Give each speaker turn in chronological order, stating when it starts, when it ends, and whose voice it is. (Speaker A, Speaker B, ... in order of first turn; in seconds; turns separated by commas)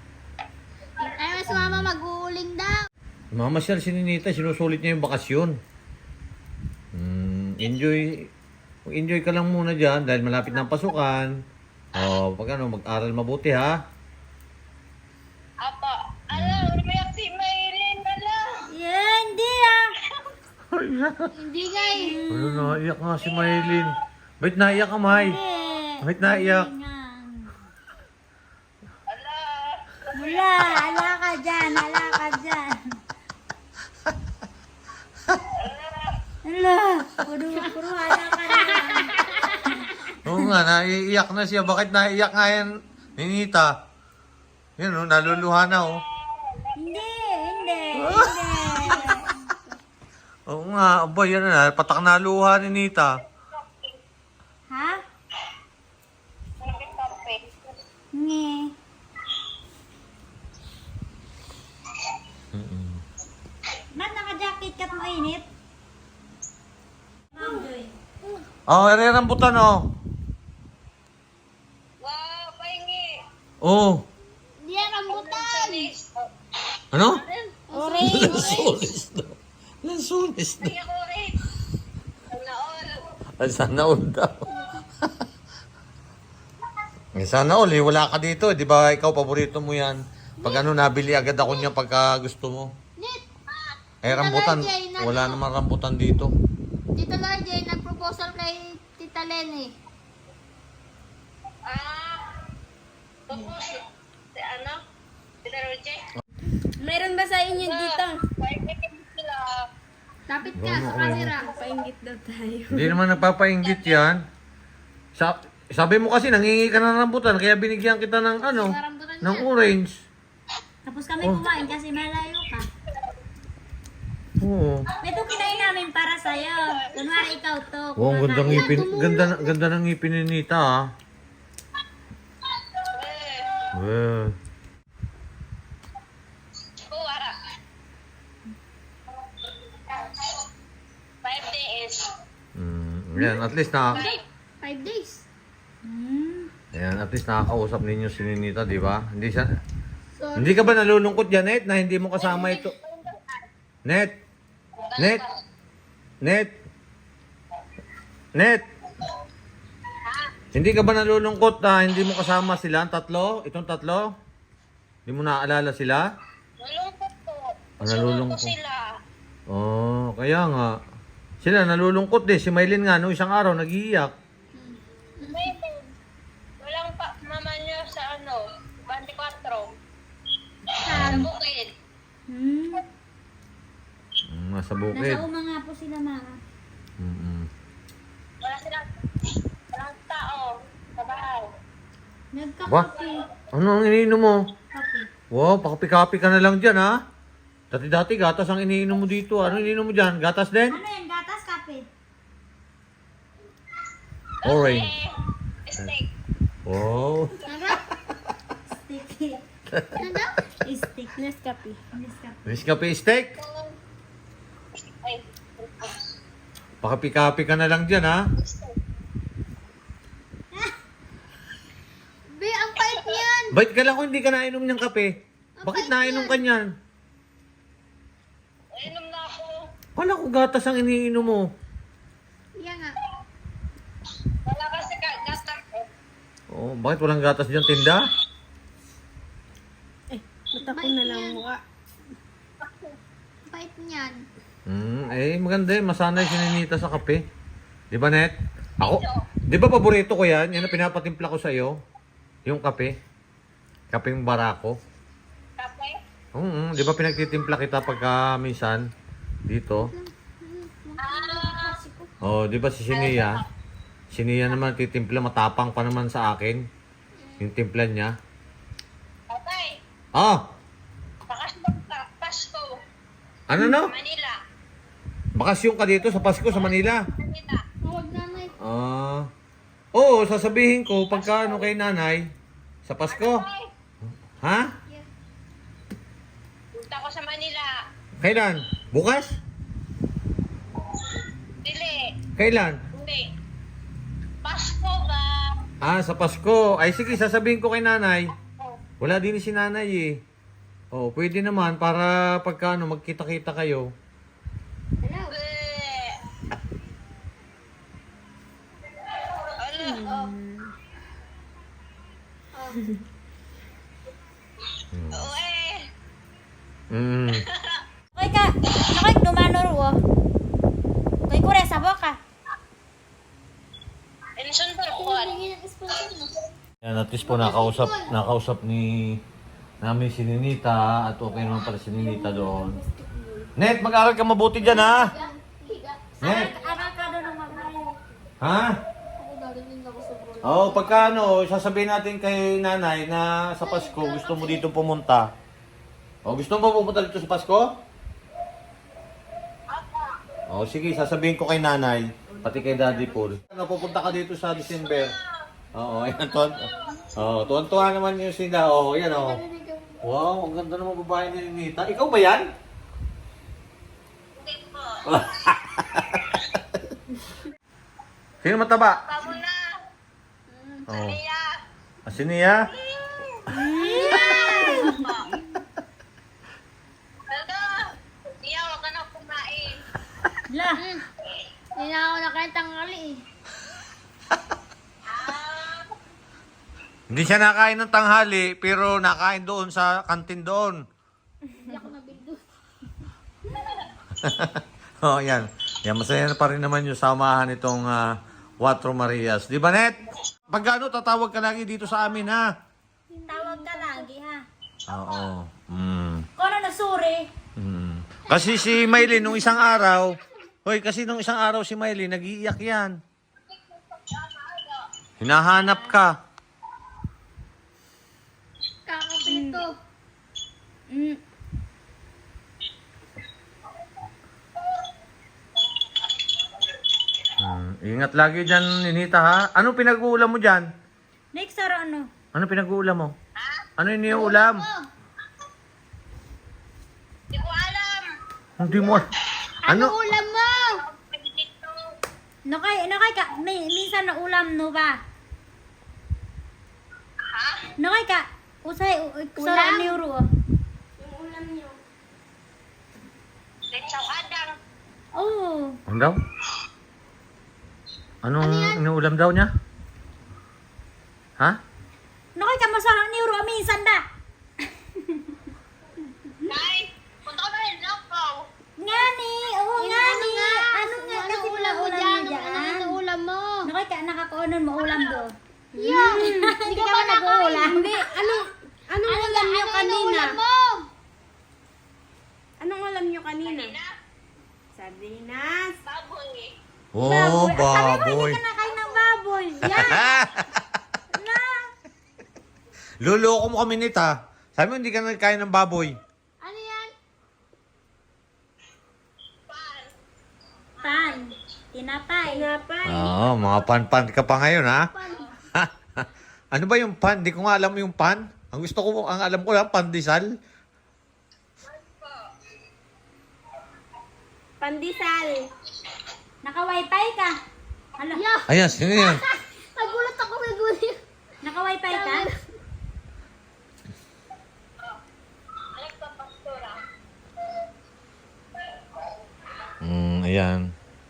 Speaker A: 1.0-2.8, Speaker B: 1.5-1.9, Speaker B: 3.3-5.6, Speaker B: 6.9-8.3, Speaker B: 8.9-11.3, Speaker B: 11.9-13.7, Speaker C: 15.6-18.4, Speaker B: 16.3-16.7, Speaker D: 18.7-19.9, Speaker B: 20.7-21.3, Speaker A: 21.3-22.2, Speaker C: 21.6-22.2, Speaker D: 22.0-22.8, Speaker B: 22.3-25.4, Speaker C: 23.2-23.9, Speaker D: 25.1-27.6, Speaker B: 26.0-26.7, Speaker C: 29.1-31.1, Speaker D: 30.1-32.7, Speaker C: 35.5-36.2, Speaker D: 36.4-40.0, Speaker B: 40.1-43.7, Speaker B: 44.8-46.0, Speaker C: 46.4-46.7, Speaker D: 46.7-49.4, Speaker B: 47.9-48.9, Speaker B: 50.5-53.2, Speaker D: 54.7-55.0, Speaker C: 56.6-57.6, Speaker D: 58.1-58.7, Speaker B: 62.5-63.0, Speaker D: 63.9-65.5, Speaker D: 67.3-68.0, Speaker B: 68.7-69.8, Speaker C: 72.0-73.2, Speaker B: 73.6-74.0, Speaker A: 74.6-75.9, Speaker C: 75.1-76.3, Speaker B: 76.9-77.2, Speaker C: 77.1-78.8, Speaker A: 77.7-78.7, Speaker B: 78.0-80.7, Speaker C: 80.6-81.3, Speaker C: 82.3-83.0, Speaker B: 83.4-84.5, Speaker A: 84.5-84.8, Speaker B: 87.2-92.7, Speaker A: 90.4-90.7, Speaker A: 93.0-93.2, Speaker C: 93.5-93.8, Speaker B: 94.0-96.3, Speaker A: 94.1-95.4, Speaker A: 96.9-99.7, Speaker C: 101.7-102.4, Speaker C: 103.3-103.8, Speaker C: 104.4-104.8, Speaker C: 105.4-106.1, Speaker E: 106.8-108.2, Speaker C: 107.6-109.6, Speaker A: 110.3-111.6, Speaker B: 110.5-111.3, Speaker E: 111.1-113.0, Speaker B: 112.7-114.2, Speaker C: 113.6-114.0, Speaker B: 115.1-120.0, Speaker A: 118.4-119.5, Speaker D: 120.8-122.7, Speaker B: 124.4-124.9, Speaker D: 125.0-128.8, Speaker C: 125.2-125.8, Speaker C: 126.4-127.2, Speaker B: 128.0-130.8, Speaker A: 128.4-129.5, Speaker C: 132.8-133.7, Speaker B: 133.7-134.3, Speaker C: 136.9-137.3, Speaker C: 139.9-140.4, Speaker C: 141.2-142.1, Speaker B: 142.6-144.1, Speaker A: 143.2-145.2, Speaker C: 143.9-144.2, Speaker D: 145.8-146.5, Speaker B: 146.7-149.5, Speaker A: 150.2-150.8, Speaker B: 150.3-152.7, Speaker C: 152.2-153.3, Speaker B: 153.8-154.2, Speaker C: 154.8-155.3, Speaker B: 156.2-156.5, Speaker B: 158.3-158.6, Speaker B: 160.5-164.1, Speaker B: 165.1-166.1, Speaker C: 166.6-168.8, Speaker B: 167.8-168.5, Speaker B: 169.5-170.7, Speaker B: 171.4-174.1, Speaker A: 174.5-175.5, Speaker C: 175.3-175.9, Speaker C: 176.6-179.7, Speaker D: 180.8-181.3, Speaker B: 180.9-181.2, Speaker C: 180.9-181.7, Speaker D: 182.3-182.8, Speaker B: 184.2-185.2, Speaker D: 184.9-186.4, Speaker B: 187.0-187.5, Speaker C: 188.4-188.9, Speaker C: 189.7-191.5, Speaker D: 192.3-193.2, Speaker B: 193.5-194.4, Speaker D: 194.7-195.1, Speaker B: 195.3-196.9, Speaker B: 197.7-200.8, Speaker D: 200.7-201.9, Speaker C: 204.4-205.1, Speaker B: 204.4-204.9, Speaker C: 205.7-206.1, Speaker B: 206.7-207.4, Speaker A: 207.4-207.8, Speaker D: 208.7-209.4, Speaker B: 209.7-210.1, Speaker A: 209.9-210.4, Speaker D: 210.6-211.1, Speaker E: 211.2-211.8, Speaker D: 211.9-212.4, Speaker B: 212.4-213.3, Speaker C: 213.4-213.8, Speaker C: 215.0-216.0, Speaker B: 216.8-218.2, Speaker C: 218.4-218.7, Speaker A: 222.3-223.5, Speaker B: 223.5-225.1, Speaker A: 225.6-226.4, Speaker B: 225.6-226.7, Speaker C: 228.7-229.6, Speaker B: 230.0-231.4, Speaker A: 232.6-232.9, Speaker C: 234.4-235.9, Speaker B: 236.5-238.1, Speaker E: 240.1-241.6, Speaker A: 240.6-241.4, Speaker A: 243.5-244.2, Speaker B: 244.7-247.2, Speaker B: 247.9-251.8, Speaker C: 248.8-249.2, Speaker B: 252.4-252.9, Speaker B: 253.9-254.8, Speaker C: 255.6-256.0, Speaker B: 256.3-258.8, Speaker B: 259.5-259.9, Speaker A: 259.7-262.1, Speaker C: 261.0-261.8, Speaker B: 262.2-263.4, Speaker C: 262.9-263.4, Speaker B: 264.1-266.6, Speaker A: 267.2-267.5, Speaker B: 267.4-268.1, Speaker C: 269.3-269.8, Speaker B: 270.1-270.4, Speaker C: 271.3-272.7, Speaker B: 273.5-273.9, Speaker C: 273.6-274.4, Speaker B: 275.4-277.0, Speaker C: 276.5-277.6, Speaker A: 277.8-278.5, Speaker B: 278.6-279.3, Speaker B: 279.9-282.3, Speaker C: 281.1-281.7, Speaker B: 282.8-283.4, Speaker C: 283.1-283.7, Speaker B: 284.4-284.7, Speaker C: 286.8-287.7, Speaker B: 288.2-289.4, Speaker C: 291.6-292.1, Speaker B: 292.4-292.8, Speaker C: 292.9-293.3, Speaker C: 294.4-295.3, Speaker B: 295.8-298.3, Speaker B: 299.0-300.1, Speaker B: 300.9-303.9, Speaker A: 305.0-305.3, Speaker C: 305.3-306.1, Speaker C: 309.6-310.0, Speaker E: 309.8-310.7, Speaker A: 310.0-310.4, Speaker A: 312.5-312.8, Speaker B: 314.9-315.3, Speaker C: 315.1-315.9, Speaker B: 316.9-317.4, Speaker C: 317.5-317.8, Speaker D: 318.1-320.0, Speaker D: 321.3-322.2, Speaker C: 324.4-325.4, Speaker A: 324.9-326.4, Speaker B: 326.8-329.2, Speaker A: 327.2-328.1, Speaker B: 329.8-332.8, Speaker E: 331.9-333.5, Speaker B: 333.6-335.1, Speaker A: 334.6-336.5, Speaker D: 336.2-337.9, Speaker B: 336.2-336.5, Speaker B: 338.4-338.7, Speaker E: 339.3-341.0, Speaker B: 340.4-345.3, Speaker A: 340.6-341.1, Speaker A: 343.6-344.6, Speaker B: 346.2-347.7, Speaker C: 349.7-350.1, Speaker B: 350.5-355.1, Speaker E: 352.3-353.5, Speaker C: 354.6-355.2, Speaker B: 355.7-359.4, Speaker C: 356.3-357.0, Speaker A: 359.1-360.0, Speaker B: 360.0-362.5, Speaker C: 364.4-365.2, Speaker B: 365.1-366.4, Speaker B: 368.4-369.0, Speaker C: 369.0-369.6, Speaker A: 370.5-370.9, Speaker C: 370.9-371.5, Speaker B: 370.9-371.2, Speaker B: 372.1-372.6, Speaker C: 372.7-373.5, Speaker D: 373.5-375.0, Speaker A: 373.7-374.9, Speaker C: 374.2-375.3, Speaker C: 377.3-377.7, Speaker C: 378.4-379.8, Speaker D: 380.5-380.8, Speaker A: 380.8-381.0, Speaker A: 381.8-383.2, Speaker C: 385.1-385.9, Speaker B: 387.1-390.8, Speaker A: 391.6-392.4, Speaker C: 393.5-393.8, Speaker B: 394.2-402.5, Speaker E: 403.1-404.1, Speaker D: 403.3-404.4, Speaker B: 404.9-406.3, Speaker D: 406.4-407.3, Speaker B: 407.6-413.0, Speaker A: 409.0-409.3, Speaker C: 413.7-414.8, Speaker B: 415.2-416.1, Speaker D: 415.7-415.9, Speaker A: 418.9-419.7, Speaker D: 419.2-419.6, Speaker D: 420.9-421.2, Speaker B: 427.4-430.7, Speaker D: 431.3-432.1, Speaker B: 432.3-433.1, Speaker C: 433.4-433.6, Speaker B: 433.8-434.6, Speaker A: 434.1-434.9, Speaker C: 437.3-438.1, Speaker B: 438.6-439.1, Speaker A: 438.7-439.0, Speaker A: 439.6-440.8, Speaker B: 439.7-439.9, Speaker C: 440.9-441.8, Speaker D: 442.4-445.0, Speaker C: 447.3-447.7, Speaker D: 447.8-450.3, Speaker A: 449.4-450.0, Speaker E: 451.0-451.8, Speaker C: 453.7-454.6, Speaker D: 455.1-455.8, Speaker B: 455.9-456.2, Speaker B: 458.2-459.5, Speaker A: 458.4-458.8, Speaker D: 462.4-464.0, Speaker C: 466.5-468.4, Speaker D: 468.8-473.0, Speaker A: 469.8-473.7, Speaker D: 473.6-475.3, Speaker C: 474.8-475.2, Speaker E: 475.7-476.5, Speaker A: 475.8-477.7, Speaker D: 476.0-477.9, Speaker E: 477.6-480.4, Speaker A: 479.1-480.9, Speaker E: 482.6-483.8, Speaker C: 483.4-483.9, Speaker E: 484.7-485.8, Speaker C: 485.8-486.5, Speaker B: 486.9-488.4, Speaker D: 487.0-490.1, Speaker C: 488.6-489.1, Speaker B: 489.7-490.5, Speaker D: 491.1-491.7, Speaker B: 493.0-495.9, Speaker A: 496.4-496.9, Speaker C: 499.5-499.9, Speaker C: 500.8-501.2, Speaker D: 500.8-502.5, Speaker E: 502.3-503.5, Speaker B: 502.9-504.9, Speaker A: 504.9-505.3, Speaker B: 505.5-510.3, Speaker C: 511.7-512.2, Speaker E: 514.6-515.5, Speaker D: 516.4-517.4, Speaker D: 518.0-518.2, Speaker A: 518.1-520.9, Speaker B: 518.5-519.2, Speaker D: 521.4-522.3, Speaker A: 521.9-522.4, Speaker C: 525.7-526.8, Speaker B: 529.8-530.6